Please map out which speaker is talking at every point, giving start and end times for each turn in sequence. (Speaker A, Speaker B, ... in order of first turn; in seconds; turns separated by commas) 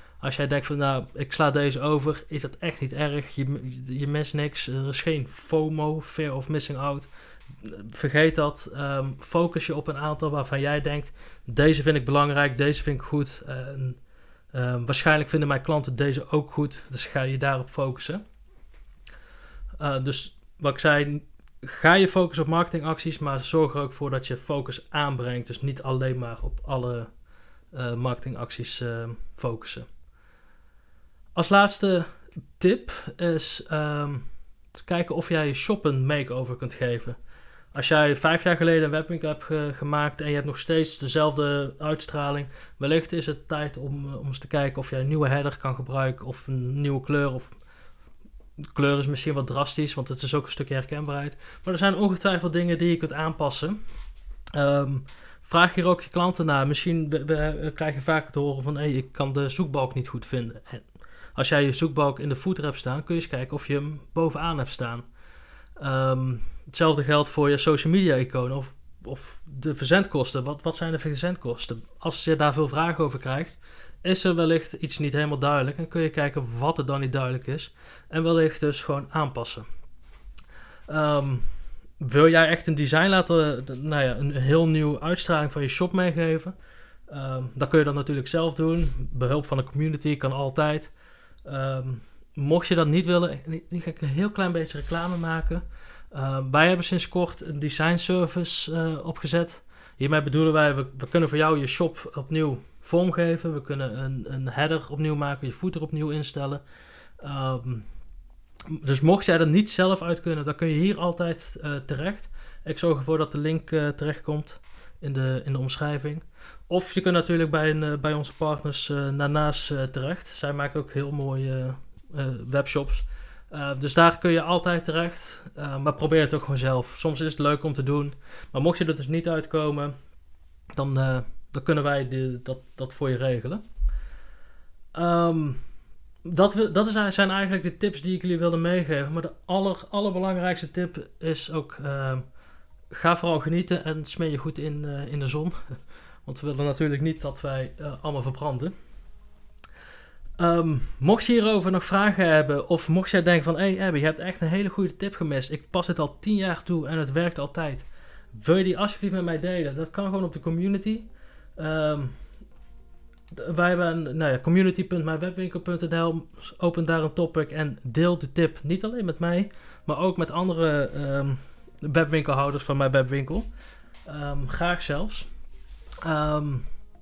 Speaker A: 0.2-7.1, Speaker A: 7.6-14.0, Speaker A: 14.5-18.2, Speaker A: 19.8-27.1, Speaker A: 27.7-29.9, Speaker A: 31.4-37.2, Speaker A: 37.7-47.5, Speaker A: 48.7-53.8, Speaker A: 54.5-65.0, Speaker A: 65.8-79.7, Speaker A: 80.9-81.5, Speaker A: 82.0-86.5, Speaker A: 87.1-90.9, Speaker A: 91.5-106.6, Speaker A: 107.2-107.9, Speaker A: 108.7-129.9, Speaker A: 130.8-133.6, Speaker A: 134.9-135.6, Speaker A: 136.2-142.2, Speaker A: 142.9-148.7, Speaker A: 150.4-162.2, Speaker A: 163.3-173.5, Speaker A: 174.1-175.3, Speaker A: 176.0-176.7